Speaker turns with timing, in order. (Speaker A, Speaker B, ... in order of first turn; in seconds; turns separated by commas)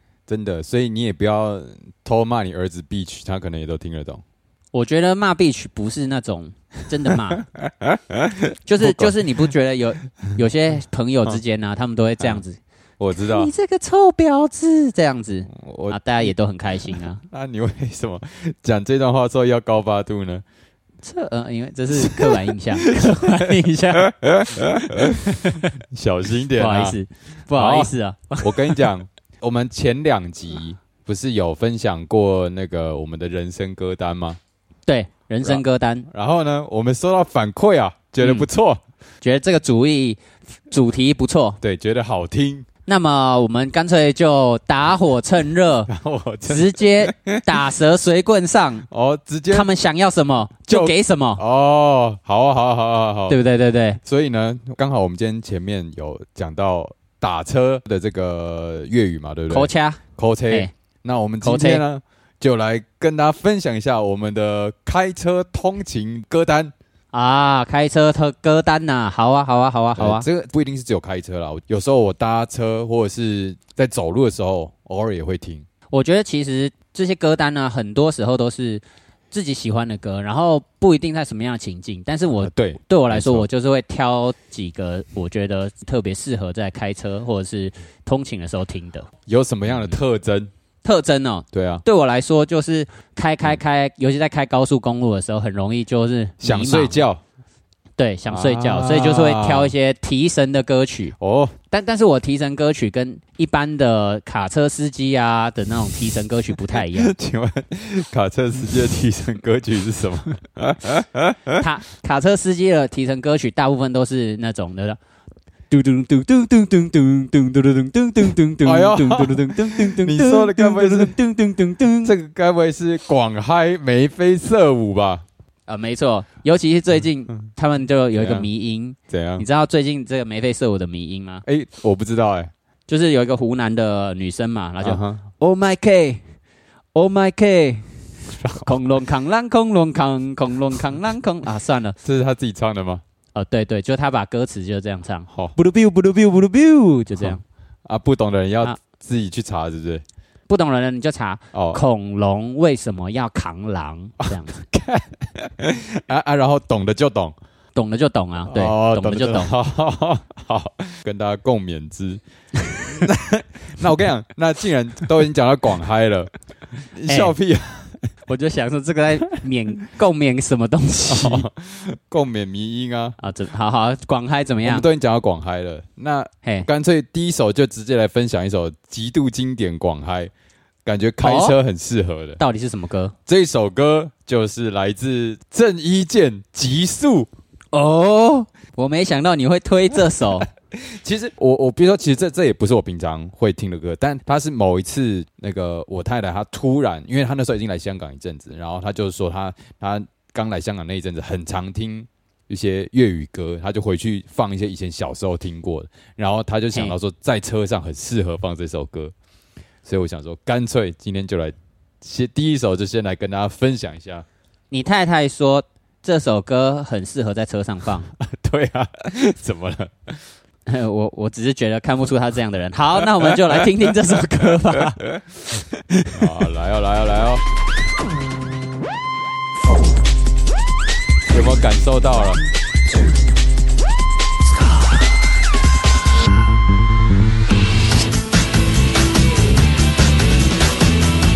Speaker A: 0.3-4.2, Speaker B: 4.7-7.5, Speaker A: 7.8-9.2, Speaker B: 8.7-12.6, Speaker A: 13.0-13.5, Speaker B: 13.3-17.2, Speaker A: 15.5-16.3, Speaker A: 17.2-20.4, Speaker B: 21.0-24.1, Speaker A: 21.9-25.3, Speaker B: 24.9-25.7, Speaker A: 25.9-27.0, Speaker B: 26.6-28.9, Speaker A: 27.5-34.4, Speaker B: 34.9-36.1, Speaker A: 35.4-38.8, Speaker B: 38.2-38.5, Speaker B: 39.2-41.6, Speaker A: 41.6-42.6, Speaker B: 42.9-45.9, Speaker A: 45.9-47.4, Speaker B: 46.5-48.9, Speaker A: 48.9-49.7, Speaker B: 49.5-51.4, Speaker A: 50.6-53.4, Speaker B: 53.3-54.0, Speaker A: 54.0-66.7, Speaker B: 59.5-60.7, Speaker B: 61.4-61.8, Speaker B: 67.1-70.3, Speaker A: 69.9-75.7, Speaker B: 75.9-89.1, Speaker A: 82.4-83.5, Speaker A: 89.3-90.5, Speaker B: 90.8-97.0, Speaker A: 91.5-91.8, Speaker A: 96.4-97.2, Speaker B: 98.0-101.1, Speaker A: 98.3-99.7, Speaker A: 101.2-101.5, Speaker B: 101.7-107.1, Speaker A: 106.7-111.6, Speaker B: 111.6-115.0, Speaker B: 115.7-122.1, Speaker A: 118.6-121.2, Speaker A: 122.0-125.2, Speaker B: 125.7-131.4, Speaker A: 128.1-128.5, Speaker A: 129.1-129.4, Speaker A: 131.4-132.5, Speaker B: 132.9-136.2, Speaker A: 134.8-135.2, Speaker B: 136.9-137.9, Speaker A: 138.4-138.8, Speaker B: 138.4-141.9, Speaker A: 142.0-143.0, Speaker B: 143.3-147.4, Speaker A: 147.2-150.0, Speaker B: 150.5-154.6, Speaker A: 151.5-151.8, Speaker A: 154.2-157.3, Speaker B: 157.7-159.5, Speaker A: 158.4-162.2, Speaker A: 162.9-166.3, Speaker A: 166.9-168.1, Speaker B: 167.1-167.3, Speaker B: 168.3-171.4, Speaker A: 171.1-173.2, Speaker B: 173.2-174.8, Speaker A: 174.6-180.3, Speaker A: 180.8-182.4, Speaker B: 181.2-181.6, Speaker B: 182.4-183.1, Speaker A: 183.3-187.3, Speaker B: 187.7-190.5, Speaker A: 190.8-209.1, Speaker A: 209.8-214.2, Speaker B: 214.7-218.1, Speaker A: 218.2-220.2, Speaker B: 220.7-225.1, Speaker A: 223.0-223.9, Speaker A: 226.1-227.4, Speaker A: 231.3-232.4